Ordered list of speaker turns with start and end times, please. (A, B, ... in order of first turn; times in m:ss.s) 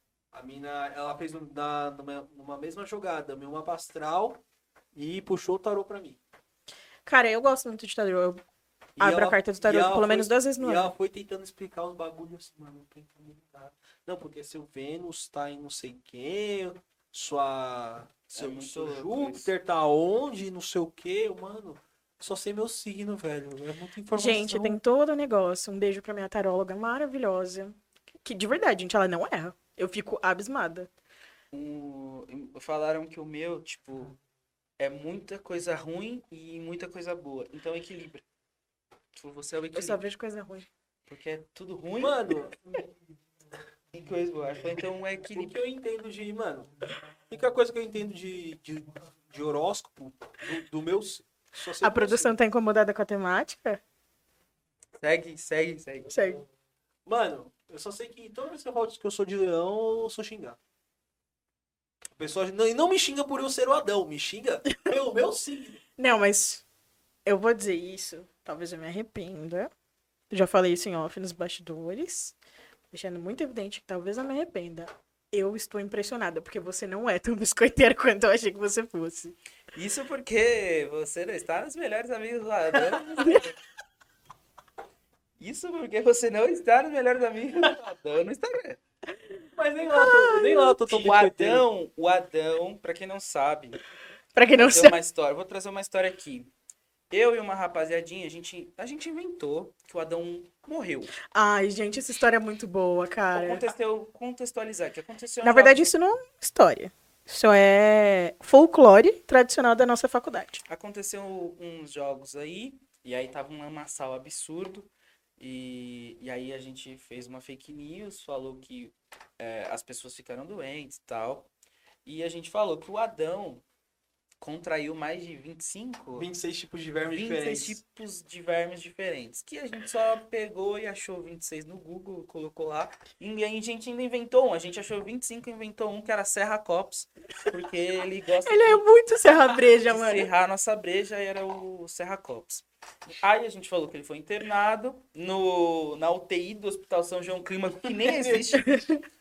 0:00.3-0:04.4 A
0:04.9-0:06.2 A
0:07.0-0:08.4 B
0:09.0-0:24.8 A
0:09.0-0:10.9 B
0:18.3-0:19.5 C
0:24.1-0:30.9 B
0:31.5-0:34.1 C
0:34.8-0:38.2 C
0:39.1-0:40.0 C
0:39.7-0:40.7 B
0:41.1-0:42.3 C
0:42.0-0:42.8 A
0:43.9-0:45.6 C
0:45.3-0:46.7 A
0:47.3-0:52.4 A
0:51.8-0:53.8 B
0:55.0-0:56.2 C
0:56.1-0:56.4 B
0:57.0-1:00.6 A
1:02.2-1:05.8 A
1:06.0-1:06.6 B
1:07.2-1:09.7 B
1:10.3-1:12.3 B
1:12.9-1:19.3 B
1:19.7-1:23.5 C
1:25.4-1:28.8 C
1:29.5-1:31.6 A
1:29.9-1:30.8 B
1:30.9-1:33.8 C
1:34.3-1:34.9 B
1:34.5-1:36.5 C
1:37.1-1:41.2 C
1:41.3-1:43.6 B
1:43.3-1:45.9 C
1:45.4-1:50.6 B
1:50.7-2:01.5 C
2:02.0-2:03.6 C
2:04.4-2:06.3 C
2:06.1-2:07.8 A
2:07.1-2:18.8 C
2:18.4-2:20.3 B
2:19.8-2:28.8 C
2:28.1-2:28.4 A
2:28.5-2:29.0 B